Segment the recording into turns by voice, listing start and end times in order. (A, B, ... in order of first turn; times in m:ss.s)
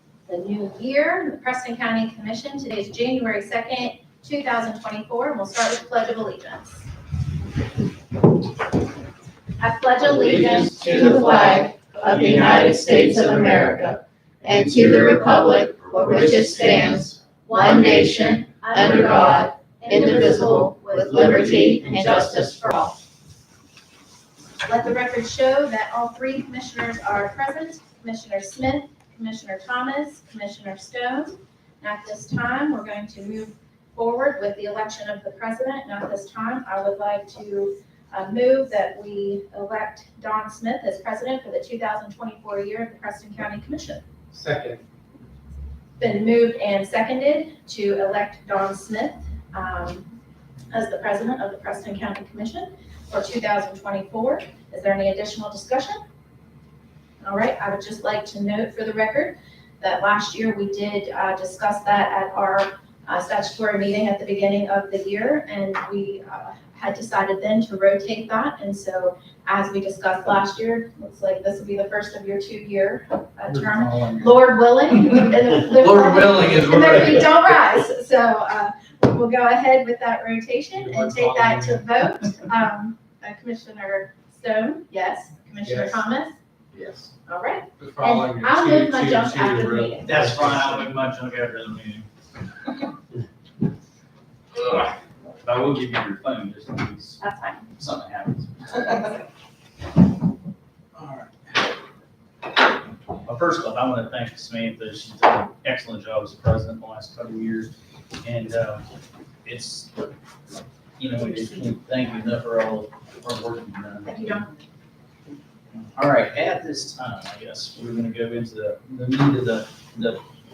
0:00.2-0:06.8 A
0:09.6-0:11.4 A
0:10.6-0:22.9 B
0:16.0-0:16.8 A
0:17.4-0:22.9 A
0:24.6-0:44.0 A
0:44.3-0:44.8 C
0:46.0-0:50.1 A
0:50.7-0:56.0 A
0:57.2-1:26.4 A
1:13.5-1:14.3 C
1:15.8-1:17.2 D
1:16.2-1:16.5 C
1:20.8-1:21.8 C
1:25.6-1:26.0 C
1:27.2-1:30.3 A
1:27.8-1:30.9 C
1:30.0-1:32.1 D
1:34.6-1:37.2 D
1:37.2-1:37.7 A
1:37.8-1:39.2 D
1:41.0-1:41.3 D
1:43.2-1:47.7 D
1:48.2-1:48.8 D
1:49.4-1:50.1 D
1:51.0-1:54.4 D
1:54.0-1:54.5 A
1:55.7-2:00.2 D